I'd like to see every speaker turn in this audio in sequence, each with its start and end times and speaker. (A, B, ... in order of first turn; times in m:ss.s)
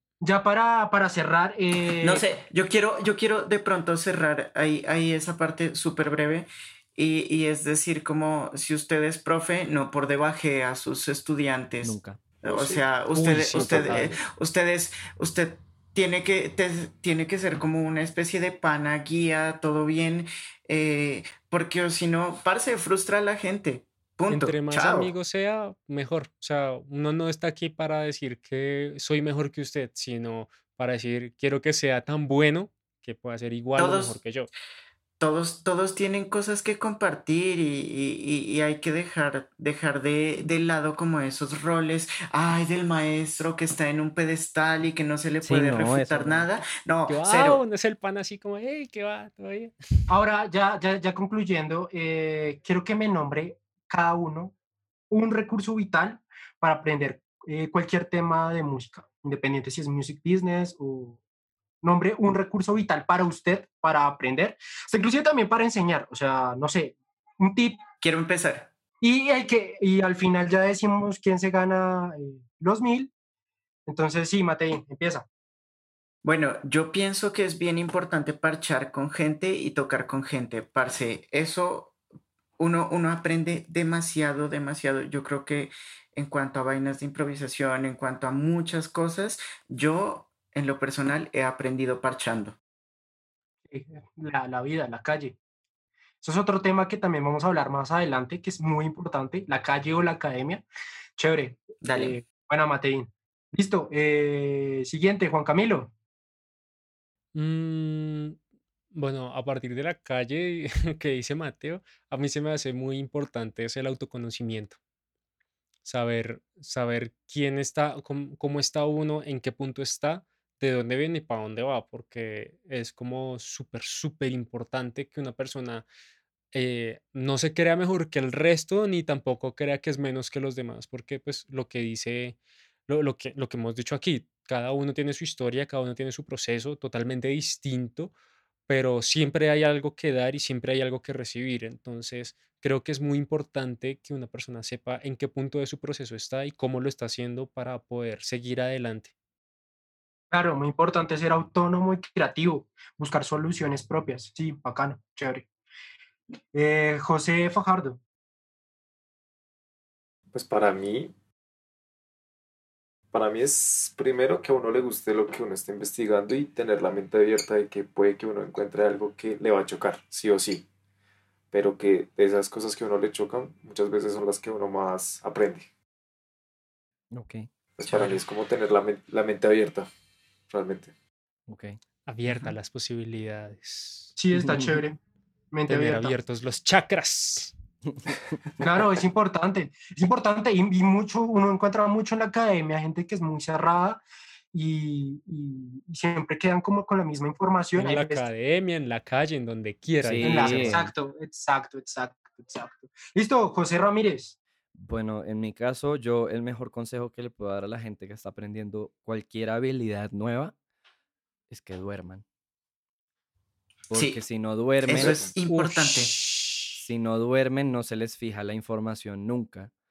0:00.2-0:02.2 A
0:02.0-0:25.1 B
0:11.8-0:12.2 C
0:12.6-0:12.8 D
0:13.1-0:14.2 E
0:13.5-0:14.0 C
0:24.3-0:34.5 E
0:33.8-0:34.2 B
0:35.2-0:47.6 B
0:45.4-0:46.5 C
0:47.1-0:49.7 E
0:50.1-0:54.5 A
0:55.1-1:01.2 A
1:01.8-1:07.8 A
1:08.0-1:08.7 B
1:09.0-1:13.1 A
1:13.9-1:15.3 A
1:16.2-1:22.0 B
1:22.6-1:32.6 B
1:33.7-1:35.4 A
1:36.2-1:40.6 A
1:41.2-1:45.9 A
1:41.8-1:42.2 B
1:47.4-1:48.4 E
1:48.9-1:54.8 E
1:55.8-2:05.9 E
2:06.5-2:12.4 E
2:12.9-2:18.1 E
2:18.7-2:29.1 E
2:30.3-2:35.5 A
2:36.5-2:38.0 A
2:40.3-2:41.1 D
2:43.1-2:50.6 D
2:51.5-2:55.7 D
2:57.1-2:57.5 C
2:57.8-2:59.9 D
2:57.9-2:58.1 B
3:00.5-3:00.9 D
3:01.5-3:01.8 C
3:02.1-3:04.1 E
3:04.2-3:05.0 A
3:04.4-3:04.7 C
3:05.5-3:06.2 A
3:05.7-3:07.5 E
3:08.6-3:14.0 A
3:14.5-3:18.3 A
3:17.7-3:20.9 E
3:20.0-3:20.9 C
3:20.2-3:24.3 A
3:24.8-3:30.5 C
3:31.5-3:32.2 C
3:33.9-3:35.3 C
3:33.9-3:34.2 B
3:34.9-3:36.2 B
3:34.9-3:35.3 D
3:35.5-3:36.8 E
3:36.8-3:39.7 C